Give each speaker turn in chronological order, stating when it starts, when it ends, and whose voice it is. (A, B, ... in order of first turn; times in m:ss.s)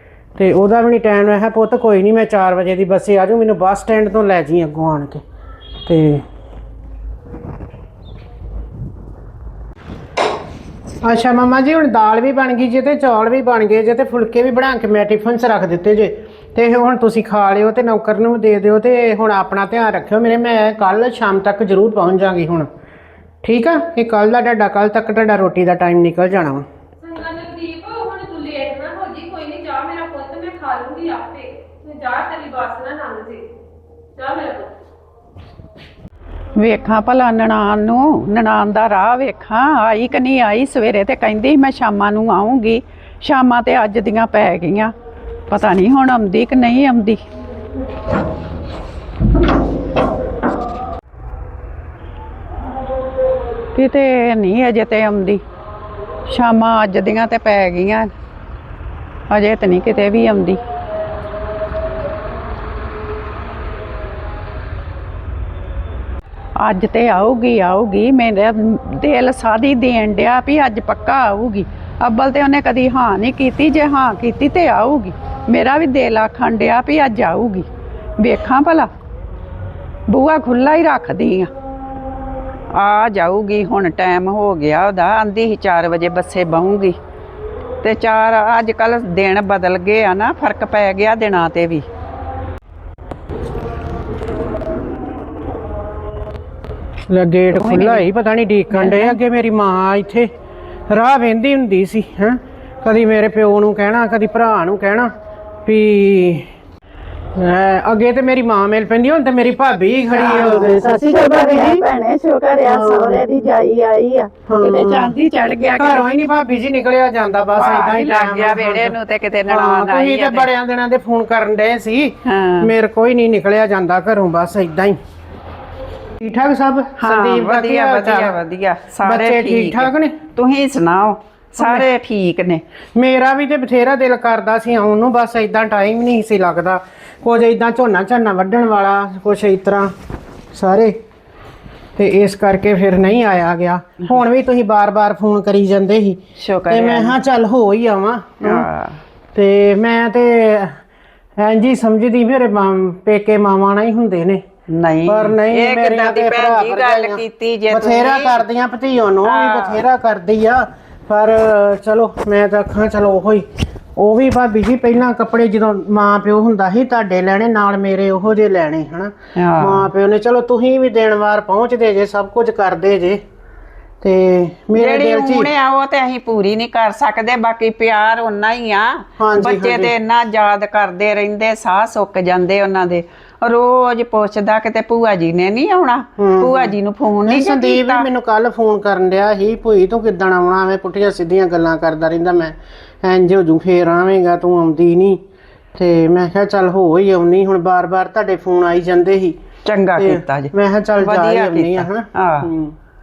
0:00.4-0:05.2 A
0:05.9-0:06.2 A
0:11.0-0:22.7 A
0:23.4-0:26.6 A
0:27.0-0:33.5 B
0:34.2-0:34.7 B
0:36.6-0:44.9 C
0:45.5-0:47.2 C
0:53.7-0:55.4 C
0:56.3-0:58.1 C
0:59.3-1:00.6 C
1:06.6-1:17.7 C
1:18.2-1:18.9 C
1:20.1-1:21.5 C
1:22.7-1:27.0 C
1:27.8-1:31.9 C
1:37.1-1:40.3 A
1:37.6-1:38.0 C
1:38.7-1:39.2 C
1:40.9-1:45.1 A
1:45.6-1:46.5 A
1:47.4-1:51.8 A
1:50.1-1:56.1 C
1:52.6-1:53.2 A
1:54.5-1:55.2 A
1:55.7-1:59.0 A
1:57.6-2:00.5 C
1:59.5-2:05.0 A
2:02.2-2:02.7 C
2:06.2-2:08.4 A
2:07.0-2:12.6 C
2:09.0-2:10.2 A
2:11.6-2:11.9 A
2:13.0-2:19.9 A
2:20.5-2:20.9 A
2:22.0-2:28.7 A
2:26.4-2:27.2 C
2:28.4-2:29.0 C
2:29.4-2:30.8 A
2:31.4-2:34.4 A
2:34.7-2:38.4 C
2:35.1-2:43.4 A
2:39.2-2:39.8 C
2:44.0-2:53.2 A
2:49.4-2:49.9 C
2:54.0-2:55.5 A
2:54.7-3:08.1 C
2:59.2-2:59.9 A
3:06.2-3:15.2 A
3:15.8-3:19.4 A
3:19.7-3:22.5 C
3:20.0-3:22.8 A